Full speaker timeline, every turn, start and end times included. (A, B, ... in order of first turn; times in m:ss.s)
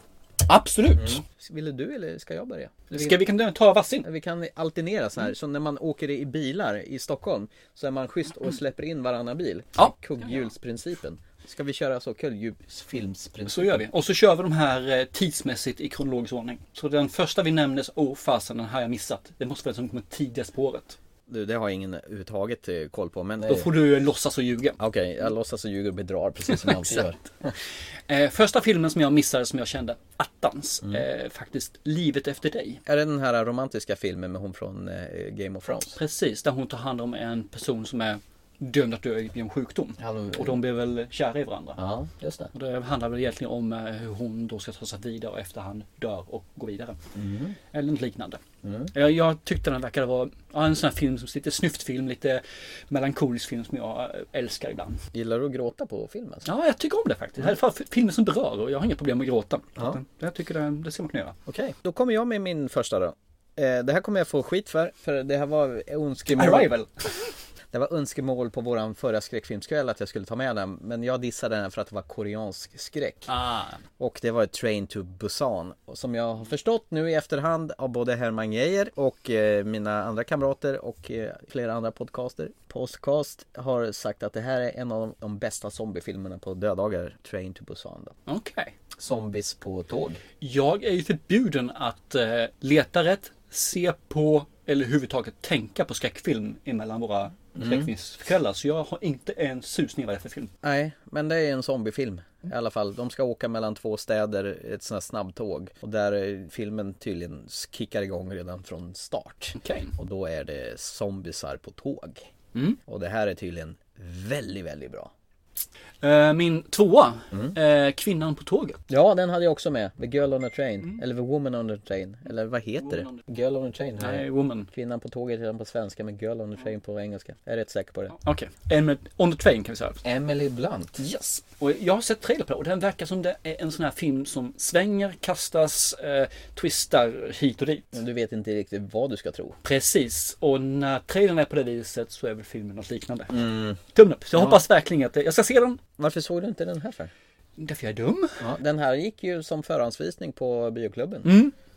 0:00.4-0:01.2 A
0:00.9-0:03.2 B
0:02.9-0:04.0 A
0:04.0-0:13.8 B
0:09.8-0:10.4 A
0:13.5-0:21.0 A
0:21.3-0:23.7 B
0:23.5-0:24.8 A
0:24.8-0:27.5 B
0:26.5-0:27.1 A
0:28.1-0:32.8 A
0:32.8-0:36.0 B
0:35.9-0:41.8 A
0:40.0-0:40.6 B
0:41.8-0:42.5 B
0:42.5-0:47.0 A
0:47.1-0:47.6 B
0:47.7-0:48.4 A
0:48.6-0:48.9 B
0:48.9-0:55.0 A
0:55.1-0:56.5 B
0:56.4-1:01.4 A
1:01.5-1:06.7 B
1:06.3-1:07.2 A
1:07.7-1:13.3 B
1:13.3-1:13.8 A
1:14.0-1:28.1 B
1:28.3-1:28.7 A
1:29.0-1:30.2 B
1:30.4-1:40.5 A
1:37.6-1:37.9 B
1:40.6-1:52.3 B
1:49.6-1:49.9 A
1:52.8-1:55.1 B
1:56.0-1:58.8 A
1:58.9-2:08.1 B
2:02.8-2:03.2 A
2:04.0-2:04.7 A
2:08.1-2:10.0 A
2:10.0-2:11.0 B
2:11.0-2:18.0 A
2:17.9-2:19.6 B
2:19.6-2:25.8 A
2:23.3-2:23.8 B
2:24.3-2:24.6 B
2:26.0-2:27.1 B
2:27.6-2:28.4 A
2:28.4-2:31.4 B
2:31.2-2:31.5 A